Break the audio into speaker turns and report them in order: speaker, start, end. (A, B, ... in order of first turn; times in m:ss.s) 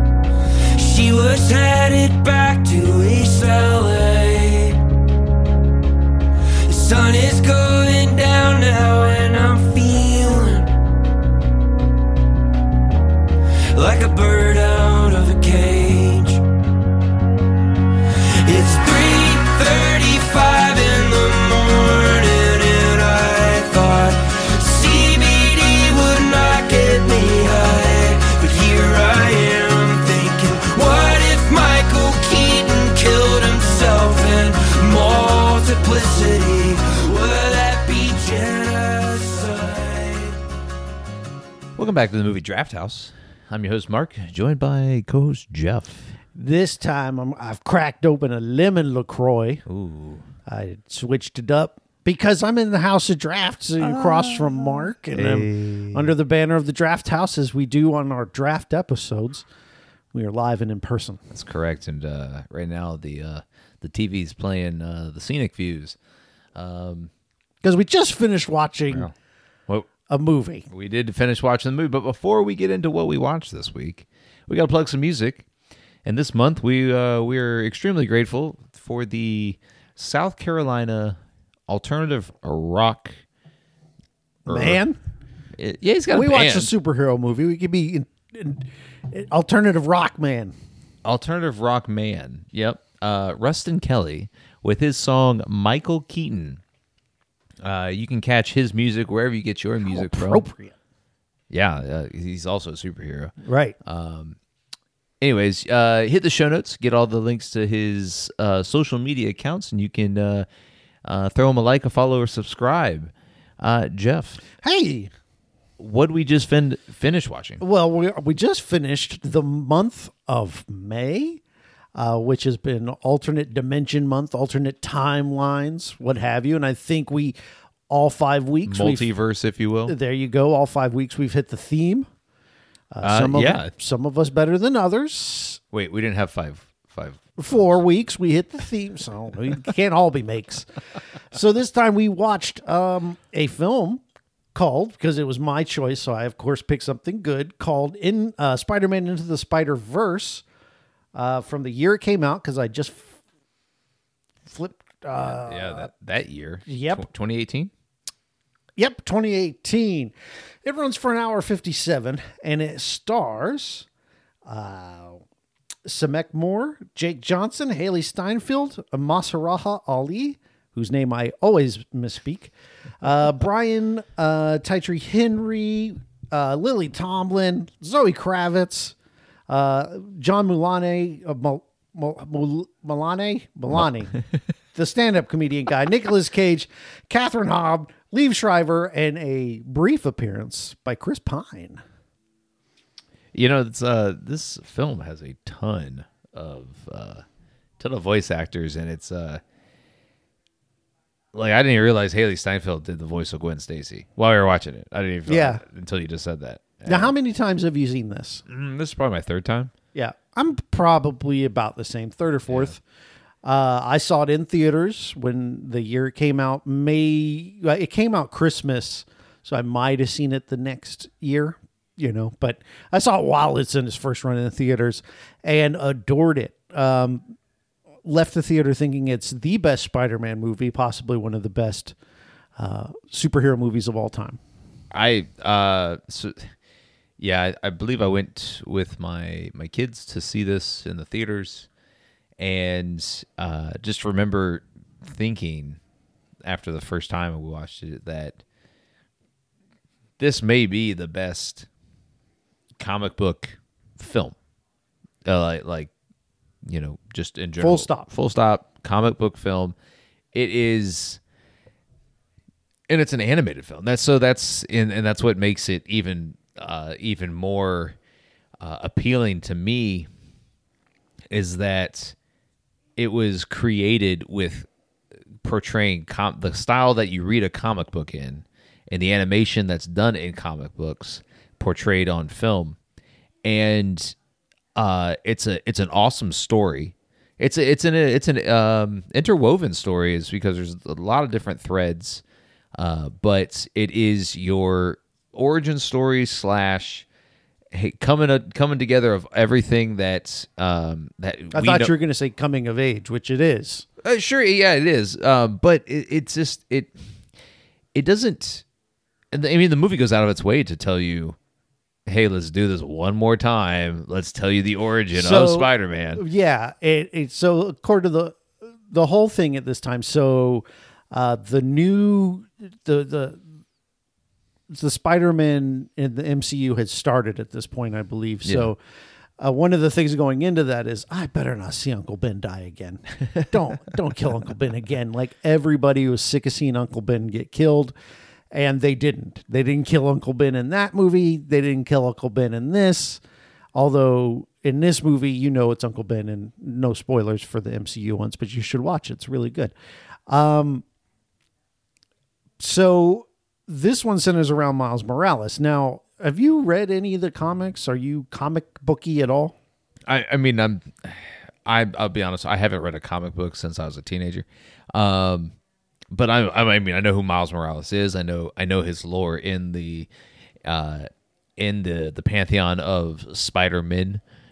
0:00.8-0:04.8 A
0:06.7-0:10.7 A
0:13.7-0:16.4 A
0:18.4-0:40.4 A
0:41.8-0:46.1 B
0:46.3-0:49.6 C
0:49.7-0:50.2 B
0:50.5-0:59.4 C
0:53.8-0:56.1 B
1:00.1-1:01.2 C
1:01.3-1:06.0 B
1:06.6-1:07.1 B
1:07.6-1:09.1 C
1:10.1-1:10.7 C
1:10.7-1:15.4 B
1:16.0-1:23.2 B
1:24.4-1:24.8 B
1:24.5-1:25.0 C
1:25.6-1:26.7 B
1:26.1-1:30.5 C
1:31.0-1:36.6 B
1:37.6-1:40.4 B
1:39.8-1:40.8 C
1:41.5-1:44.4 B
1:43.4-1:43.8 C
1:45.2-1:50.5 B
1:51.0-1:54.4 B
1:54.6-1:55.1 C
1:55.8-1:57.6 B
1:57.6-2:01.4 C
2:02.0-2:07.4 C
2:07.9-2:09.1 C
2:08.6-2:09.9 B
2:09.8-2:12.1 C
2:12.9-2:15.6 C
2:13.0-2:13.7 B
2:15.7-2:17.8 B
2:17.4-2:20.7 C
2:21.3-2:24.0 C
2:24.5-2:30.4 C
2:31.1-2:33.1 C
2:34.5-2:35.9 C
2:35.2-2:37.7 B
2:36.6-2:37.0 C
2:38.8-2:40.1 C
2:40.6-2:43.9 C
2:44.5-2:45.2 C
2:45.8-2:58.9 C
2:59.5-3:04.2 C
3:04.7-3:11.8 C
3:13.3-3:17.2 B
3:17.8-3:19.4 B
3:21.3-3:27.1 B
3:25.3-3:25.6 C
3:26.8-3:28.4 C
3:28.5-3:29.7 B
3:29.9-3:32.8 C
3:32.5-3:32.8 B
3:33.4-3:47.2 C
3:48.0-3:52.0 C
3:52.6-3:54.4 C
3:54.9-3:56.5 B
3:57.2-4:01.7 B
4:02.4-4:05.8 B
4:06.4-4:08.4 B
4:10.2-4:11.7 B
4:12.8-4:14.4 B
4:15.2-4:15.9 B
4:16.6-4:19.8 B
4:17.6-4:18.1 C
4:20.3-4:21.2 B
4:22.9-4:28.0 B
4:28.6-4:30.1 B
4:31.3-4:32.1 B
4:33.0-4:34.7 B
4:35.4-4:42.8 B
4:43.4-4:44.1 B
4:44.8-4:52.2 B
4:52.8-4:57.1 B
4:57.7-5:01.9 B
5:01.5-5:03.9 C
5:04.0-5:06.9 B
5:07.9-5:08.6 B
5:09.3-5:11.4 B
5:12.1-5:16.2 B
5:15.1-5:23.4 C
5:24.7-5:28.8 C
5:29.4-5:37.9 C
5:38.5-5:43.2 C
5:43.8-5:49.7 C
5:50.3-5:50.8 C
5:52.6-5:59.6 C
6:00.1-6:05.5 B
6:06.1-6:10.1 B
6:10.6-6:14.2 B